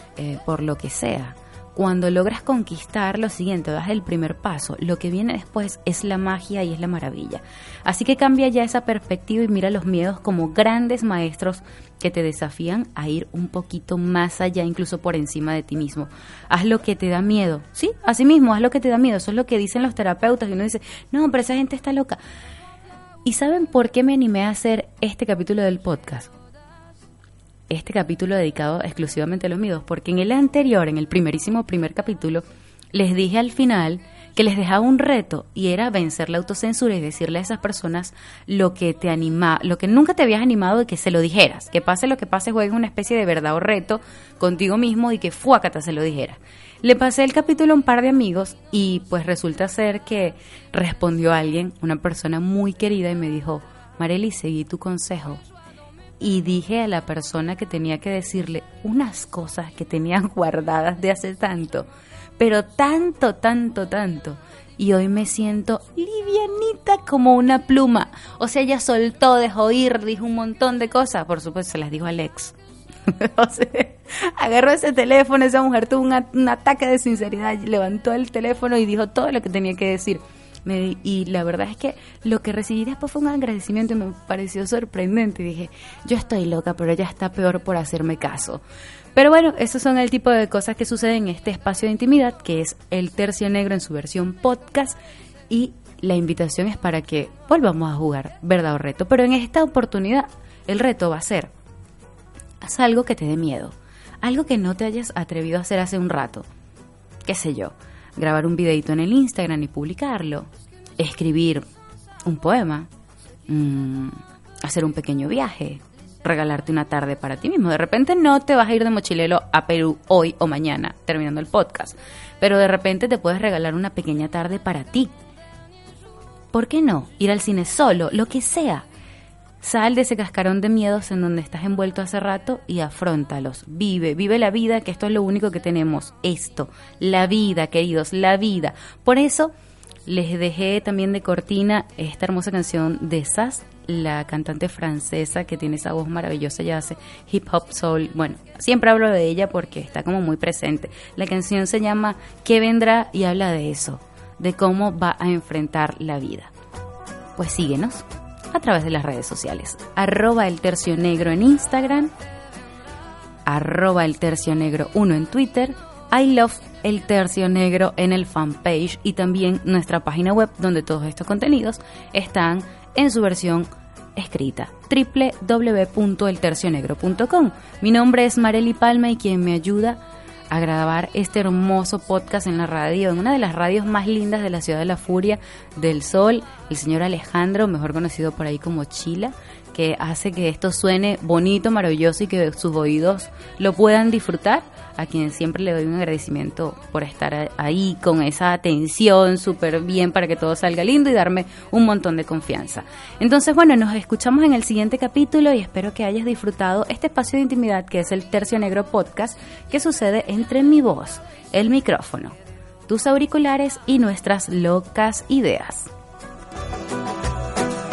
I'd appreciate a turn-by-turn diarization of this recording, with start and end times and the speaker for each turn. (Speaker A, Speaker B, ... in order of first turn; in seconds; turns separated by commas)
Speaker A: 0.2-22.2, Speaker A: 23.2-26.3, Speaker A: 27.7-55.4, Speaker A: 56.2-61.9, Speaker A: 62.4-72.5, Speaker A: 73.1-88.6, Speaker A: 89.2-95.0, Speaker A: 95.5-101.5, Speaker A: 102.6-106.5, Speaker A: 107.2-111.6, Speaker A: 112.3-112.9, Speaker A: 113.5-125.1, Speaker A: 126.5-128.9, Speaker A: 129.6-139.5, Speaker A: 140.1-156.5, Speaker A: 157.4-162.1, Speaker A: 163.5-212.4, Speaker A: 212.9-215.9